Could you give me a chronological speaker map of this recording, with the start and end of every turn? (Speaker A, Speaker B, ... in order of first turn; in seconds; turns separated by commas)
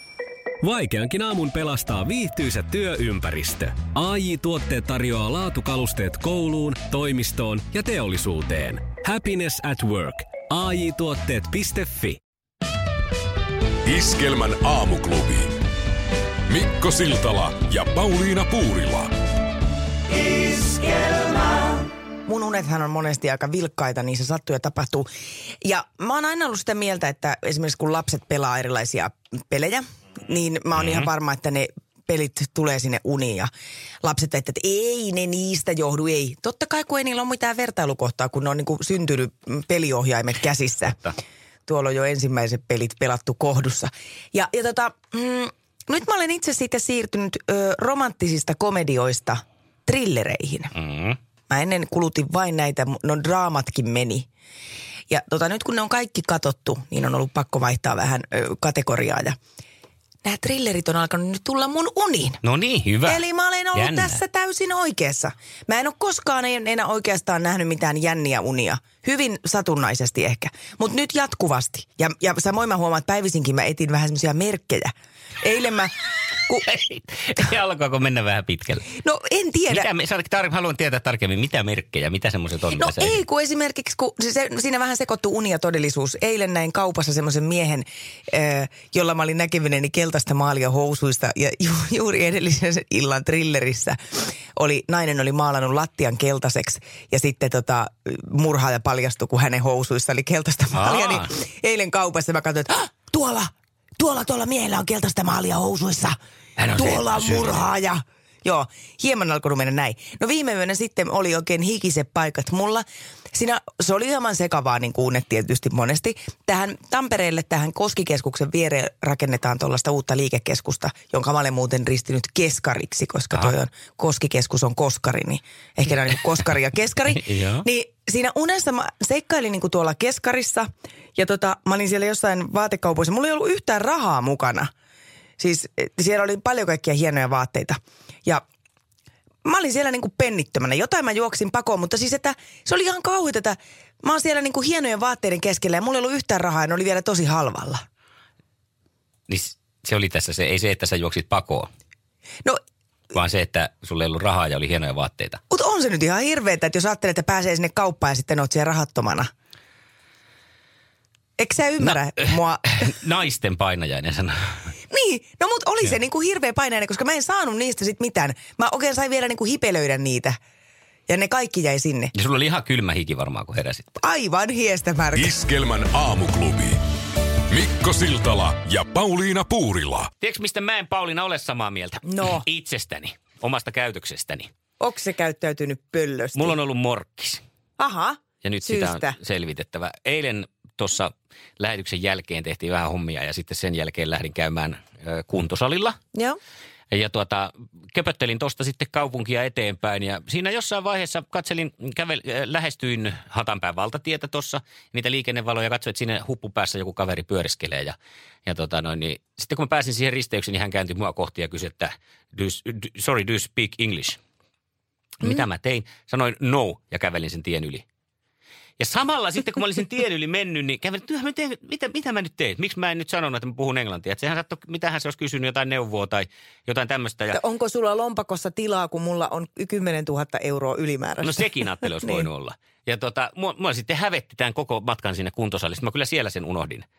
Speaker A: 0.6-12.2, Speaker B: 13.9-15.5, Speaker B: 16.5-19.1, Speaker C: 20.6-21.7, Speaker C: 22.3-25.1, Speaker C: 25.6-33.5, Speaker D: 30.8-31.1, Speaker C: 34.0-41.1, Speaker C: 41.7-50.7, Speaker D: 50.7-51.2, Speaker C: 51.5-54.3, Speaker C: 55.1-59.4, Speaker C: 60.2-62.4, Speaker D: 62.4-64.2, Speaker C: 63.0-75.9, Speaker D: 76.7-78.9, Speaker C: 79.0-79.9, Speaker D: 79.7-83.2, Speaker C: 82.7-106.2, Speaker D: 100.7-101.3, Speaker D: 106.6-107.7, Speaker C: 106.8-134.7, Speaker D: 127.1-127.7, Speaker C: 135.4-138.4, Speaker C: 139.4-147.8, Speaker D: 149.3-151.7, Speaker D: 153.1-155.4, Speaker C: 155.5-159.3, Speaker C: 161.4-162.8, Speaker D: 161.8-164.7, Speaker C: 164.9-170.4, Speaker C: 171.1-172.1, Speaker D: 172.1-173.9, Speaker C: 174.0-175.3, Speaker B: 175.2-176.8, Speaker B: 177.5-180.1, Speaker D: 180.2-184.5, Speaker C: 182.1-182.4, Speaker C: 184.8-186.6, Speaker D: 186.3-187.4, Speaker C: 187.8-189.2, Speaker D: 188.4-196.0, Speaker D: 196.9-214.2, Speaker D: 215.2-217.8, Speaker D: 218.8-227.4, Speaker C: 227.3-232.3, Speaker D: 231.2-236.9